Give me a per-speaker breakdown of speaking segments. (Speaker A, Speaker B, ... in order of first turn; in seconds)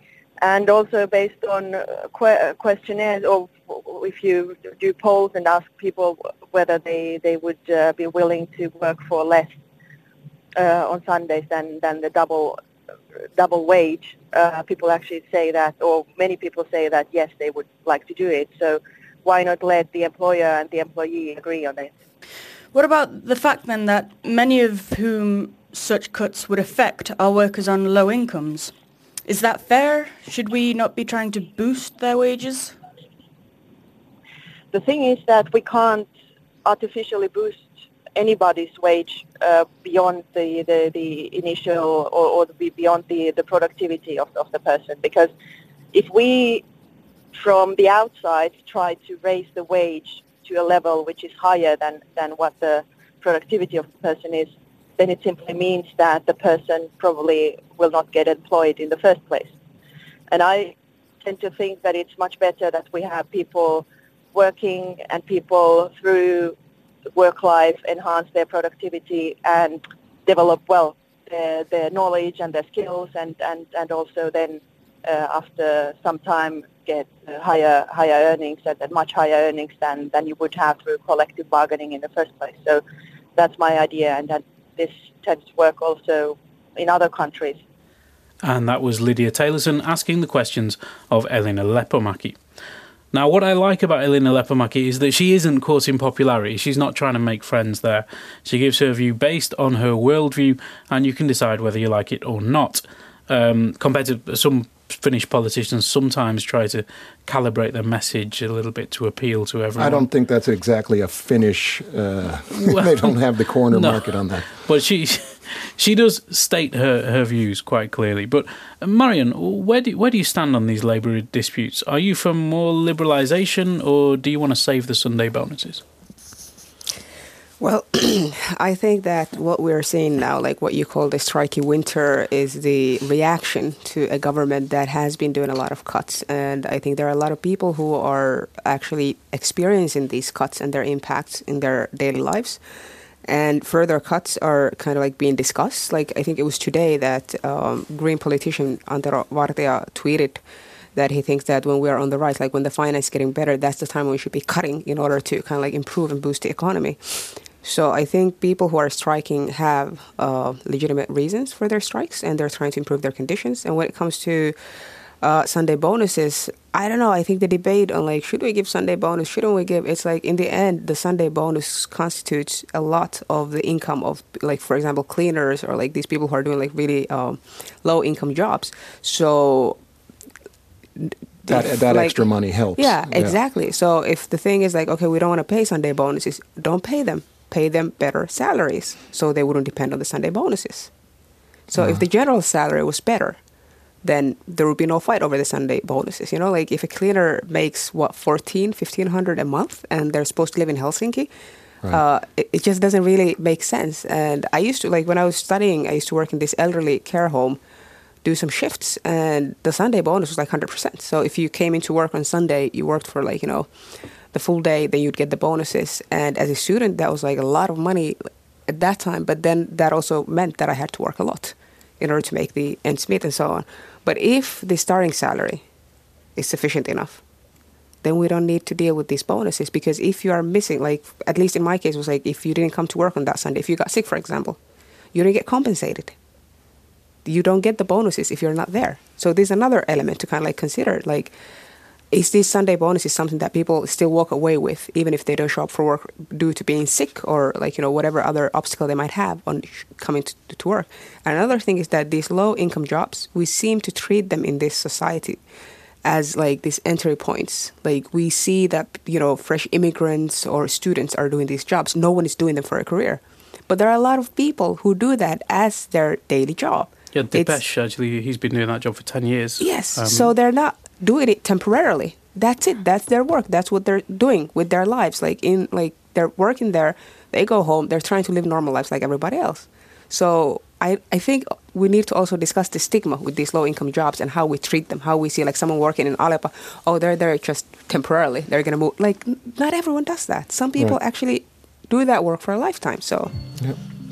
Speaker A: 0.4-9.5, 10.6-12.6, 13.3-21.9, 34.7-36.1, 36.6-45.3, 45.9-46.6, 47.3-59.5, 60.3-66.5, 67.1-82.8, 83.3-87.6
Speaker B: 22.7-28.7, 29.2-32.8
Speaker C: 88.4-92.4, 93.1-110.0, 112.6-113.1, 113.7-125.8, 267.1-270.3
Speaker D: 109.8-114.5, 181.5-183.4, 191.7-192.0
Speaker E: 127.6-142.6, 143.2-150.4, 150.9-164.5, 165.2-179.8, 181.0-182.2, 182.8-190.9, 191.7-193.4, 194.0-201.3, 201.9-207.6, 208.2-213.7, 214.3-225.6, 226.3-227.2, 228.0-234.6, 235.1-236.1, 237.2-241.3, 242.1-255.4, 256.0-267.6, 269.6-293.3